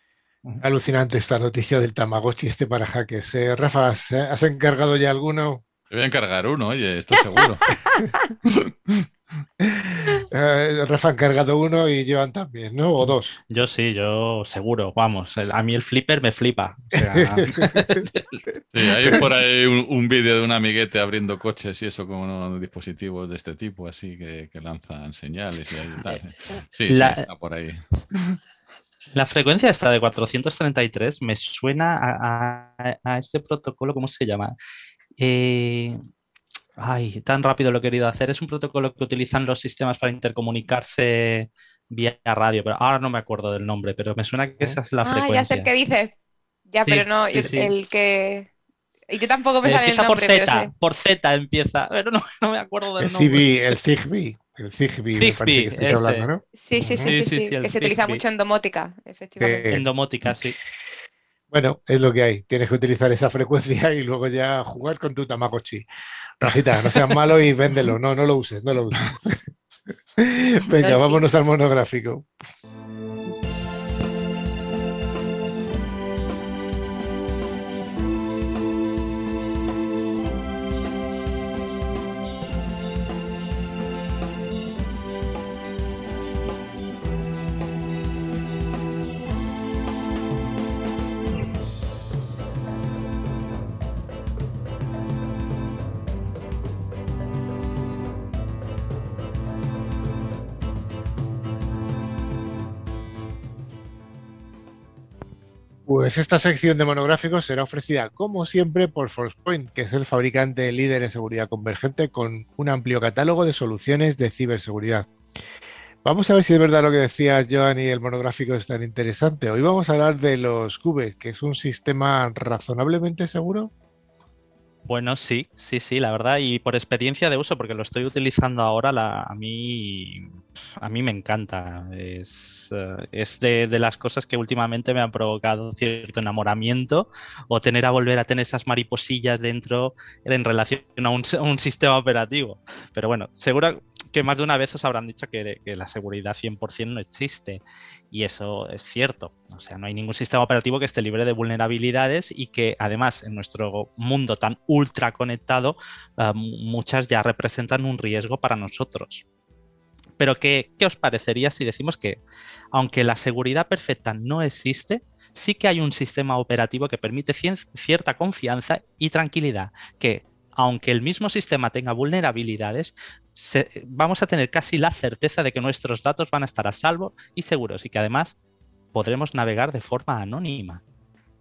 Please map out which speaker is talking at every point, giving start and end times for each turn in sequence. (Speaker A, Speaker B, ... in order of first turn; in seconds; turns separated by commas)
Speaker A: 0.6-5.6, Speaker B: 5.9-7.8, Speaker B: 8.5-9.0, Speaker A: 9.6-13.4, Speaker C: 13.5-18.4, Speaker A: 17.1-17.9, Speaker B: 18.7-27.8, Speaker C: 26.9-27.3, Speaker C: 29.1-34.5, Speaker C: 35.2-36.0, Speaker C: 36.8-45.7, Speaker D: 45.0-46.1, Speaker D: 46.7-48.5, Speaker C: 46.8-47.7, Speaker D: 49.1-50.7, Speaker C: 49.6-53.5, Speaker A: 53.0-57.1, Speaker C: 55.1-56.3, Speaker D: 56.5-59.7, Speaker C: 57.0-58.2, Speaker A: 59.4-59.9, Speaker C: 59.7-60.5, Speaker A: 61.5-65.8, Speaker A: 66.4-69.4, Speaker A: 70.2-72.3, Speaker D: 70.8-71.2, Speaker A: 105.8-115.1, Speaker A: 116.0-123.7, Speaker C: 124.8-159.2, Speaker C: 160.2-162.2, Speaker C: 162.7-178.3, Speaker C: 178.9-180.8